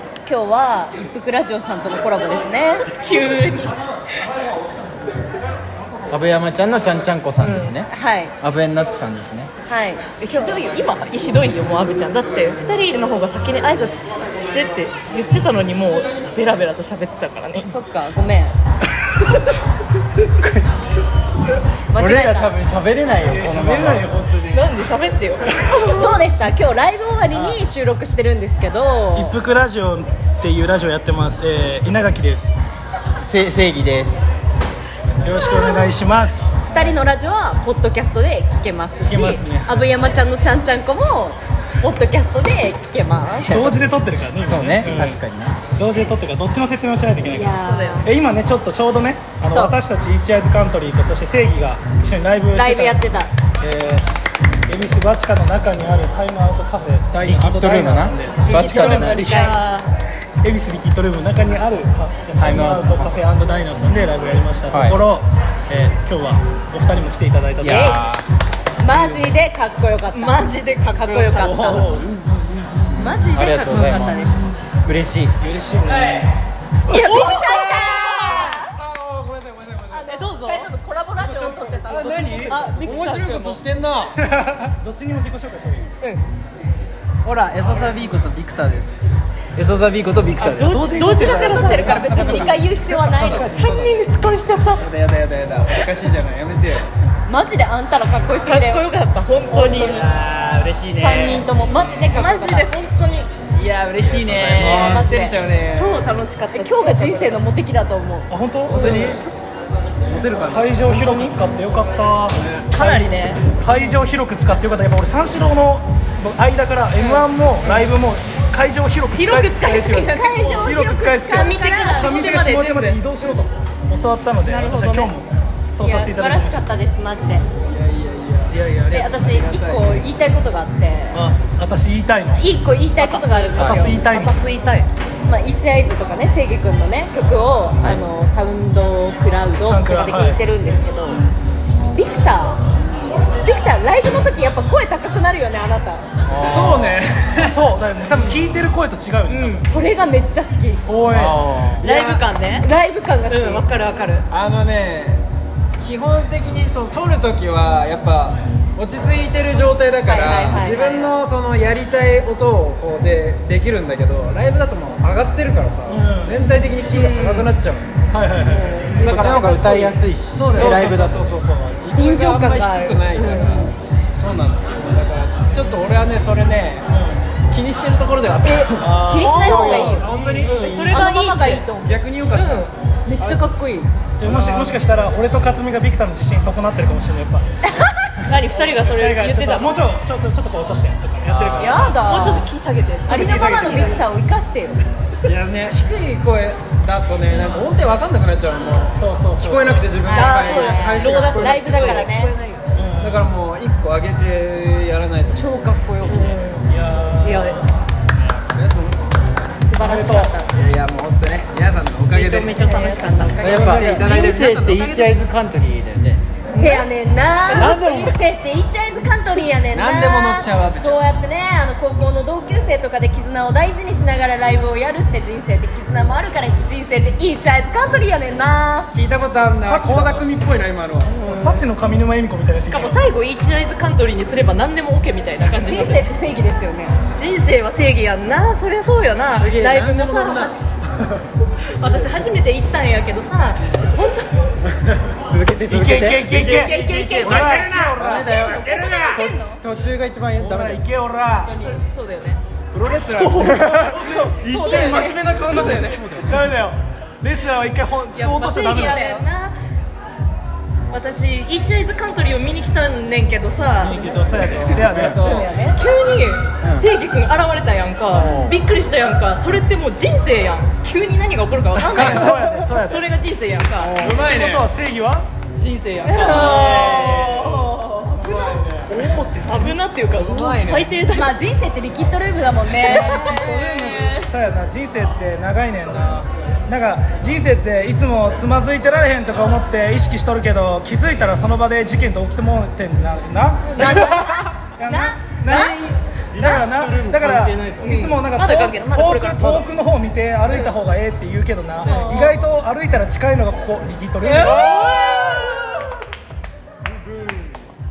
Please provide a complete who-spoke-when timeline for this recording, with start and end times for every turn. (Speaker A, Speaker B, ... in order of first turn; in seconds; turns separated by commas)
Speaker A: 0.2-3.7, Speaker B: 3.0-3.5, Speaker C: 6.1-7.9, Speaker B: 7.4-7.7, Speaker A: 7.9-8.3, Speaker C: 8.4-9.5, Speaker A: 9.7-10.6, Speaker B: 10.2-17.7, Speaker A: 17.5-18.5, Speaker A: 21.9-22.5, Speaker C: 21.9-24.1, Speaker D: 23.2-24.7, Speaker B: 24.5-25.5, Speaker A: 25.7-29.4, Speaker D: 27.3-27.6, Speaker D: 29.1-32.5, Speaker C: 33.2-34.3, Speaker D: 35.2-36.7, Speaker A: 35.4-35.9, Speaker A: 36.7-43.6, Speaker D: 39.1-39.8, Speaker C: 43.4-43.8, Speaker D: 43.5-45.2, Speaker C: 44.4-45.5, Speaker D: 45.7-53.0, Speaker A: 47.2-48.1, Speaker B: 47.6-48.0, Speaker A: 49.5-49.8, Speaker A: 52.5-53.3, Speaker D: 53.6-54.0, Speaker D: 54.7-59.5, Speaker C: 57.2-59.5, Speaker A: 58.4-59.6, Speaker B: 59.0-59.9, Speaker D: 60.4-67.9, Speaker C: 62.4-63.1, Speaker C: 64.7-65.0, Speaker C: 67.6-68.2, Speaker A: 67.6-68.0, Speaker A: 68.8-72.0, Speaker D: 68.9-69.2, Speaker B: 70.1-71.8, Speaker D: 71.4-72.1, Speaker A: 72.9-74.4, Speaker C: 72.9-74.2, Speaker C: 74.8-75.3, Speaker D: 75.4-76.3, Speaker A: 76.9-78.7, Speaker E: 77.1-80.3, Speaker A: 79.9-83.1, Speaker B: 80.1-80.7, Speaker E: 81.2-84.3, Speaker D: 82.5-83.5, Speaker B: 82.5-83.6, Speaker D: 84.7-85.9, Speaker E: 87.2-90.9, Speaker B: 90.4-94.8, Speaker D: 90.6-92.5, Speaker A: 90.9-93.5, Speaker E: 92.0-93.7, Speaker D: 93.1-94.0, Speaker E: 94.8-96.9, Speaker A: 97.2-98.8, Speaker B: 98.4-100.0, Speaker E: 99.5-101.4, Speaker A: 101.0-102.7, Speaker B: 102.1-103.3, Speaker E: 103.5-106.1, Speaker C: 104.3-105.0, Speaker A: 104.6-105.4, Speaker B: 105.7-107.4, Speaker A: 106.5-109.1, Speaker D: 108.3-108.9, Speaker E: 108.7-109.2, Speaker E: 110.1-111.3, Speaker D: 110.5-126.7, Speaker E: 112.4-113.3, Speaker B: 112.7-113.5, Speaker B: 117.1-117.7, Speaker B: 119.1-120.7, Speaker A: 119.3-122.2, Speaker B: 121.4-123.0, Speaker B: 124.5-125.1, Speaker A: 125.8-127.4, Speaker E: 127.6-129.8, Speaker D: 128.5-129.0, Speaker A: 128.9-131.2, Speaker D: 131.1-132.4, Speaker A: 132.3-134.0, Speaker B: 133.0-134.9, Speaker D: 133.6-134.4, Speaker A: 135.2-141.2, Speaker C: 137.8-138.0, Speaker D: 139.6-140.4, Speaker A: 141.9-142.6, Speaker A: 143.4-146.0, Speaker C: 146.3-147.0, Speaker E: 146.4-147.6, Speaker D: 147.4-149.6, Speaker B: 149.3-149.6, Speaker A: 149.6-150.8, Speaker D: 150.9-151.4, Speaker C: 151.1-151.9, Speaker B: 151.8-152.7, Speaker A: 152.6-153.6, Speaker B: 153.3-154.2, Speaker E: 154.3-155.2, Speaker E: 155.8-167.9, Speaker A: 160.1-161.2, Speaker D: 165.9-166.3, Speaker B: 167.1-167.4, Speaker D: 168.1-169.2, Speaker A: 168.6-169.7, Speaker E: 168.9-176.9, Speaker C: 169.0-171.4, Speaker B: 169.2-169.5, Speaker D: 170.4-170.7, Speaker A: 171.9-173.7, Speaker B: 173.2-173.6, Speaker D: 176.9-177.2, Speaker E: 177.5-181.0, Speaker A: 178.4-180.1, Speaker D: 178.8-181.0, Speaker B: 179.2-182.7, Speaker A: 180.9-181.6, Speaker E: 181.8-183.4, Speaker A: 183.1-183.9, Speaker D: 184.2-187.4, Speaker E: 184.2-184.8, Speaker B: 188.2-189.9, Speaker D: 188.6-192.0, Speaker E: 191.2-192.3, Speaker A: 191.6-192.5, Speaker B: 192.0-194.0, Speaker D: 193.1-194.0, Speaker A: 193.1-194.8, Speaker E: 195.2-202.2, Speaker D: 198.9-199.9, Speaker A: 200.0-202.3, Speaker B: 200.0-202.6, Speaker D: 202.7-203.3, Speaker E: 203.0-205.4, Speaker A: 205.3-206.4, Speaker B: 206.1-206.7, Speaker D: 206.7-207.6, Speaker B: 207.2-207.6, Speaker E: 208.5-209.4, Speaker A: 209.6-210.5, Speaker D: 209.8-210.4, Speaker E: 210.5-215.1, Speaker B: 212.1-213.9, Speaker C: 213.4-216.2, Speaker B: 216.5-216.8, Speaker A: 216.5-228.9, Speaker B: 217.5-217.8, Speaker C: 217.5-218.2, Speaker E: 219.7-221.0, Speaker E: 228.9-231.2, Speaker D: 229.6-230.3, Speaker B: 231.1-231.6, Speaker D: 231.2-233.0, Speaker B: 232.7-236.0, Speaker A: 235.6-236.9, Speaker B: 237.1-240.6, Speaker E: 239.2-241.1, Speaker B: 241.8-244.3, Speaker C: 245.3-246.4, Speaker D: 245.7-247.7, Speaker E: 246.2-249.2, Speaker B: 246.6-247.8, Speaker A: 247.0-249.6, Speaker C: 247.7-250.8, Speaker D: 250.4-251.5, Speaker A: 251.4-252.0, Speaker B: 251.6-252.4, Speaker E: 252.7-253.8, Speaker D: 252.8-255.1, Speaker C: 253.4-256.4, Speaker B: 254.5-256.0, Speaker E: 254.5-254.8, Speaker A: 254.6-255.1, Speaker E: 255.5-256.2, Speaker D: 256.3-259.0, Speaker B: 258.1-259.3, Speaker A: 258.2-259.5, Speaker B: 260.9-264.1, Speaker D: 263.8-265.1, Speaker A: 264.0-264.3, Speaker E: 264.4-265.5, Speaker C: 264.8-265.2, Speaker B: 265.1-274.1, Speaker A: 265.2-265.8, Speaker C: 266.6-266.9, Speaker D: 268.1-268.6, Speaker D: 271.8-273.0, Speaker E: 271.9-272.3, Speaker D: 273.8-275.2, Speaker E: 274.0-274.7, Speaker B: 275.6-277.6, Speaker A: 276.0-278.2, Speaker E: 276.2-279.0, Speaker D: 276.6-277.0, Speaker D: 278.5-279.8, Speaker B: 279.4-281.3, Speaker E: 280.1-281.0, Speaker A: 281.1-284.3, Speaker B: 282.8-283.5, Speaker D: 283.2-293.9, Speaker A: 293.7-296.0, Speaker D: 294.8-295.8, Speaker D: 296.3-304.7, Speaker C: 296.4-297.9, Speaker B: 297.8-299.7, Speaker A: 301.8-302.4, Speaker B: 301.9-302.2, Speaker B: 304.3-305.1, Speaker A: 304.3-305.8, Speaker E: 304.5-305.6, Speaker E: 306.8-307.7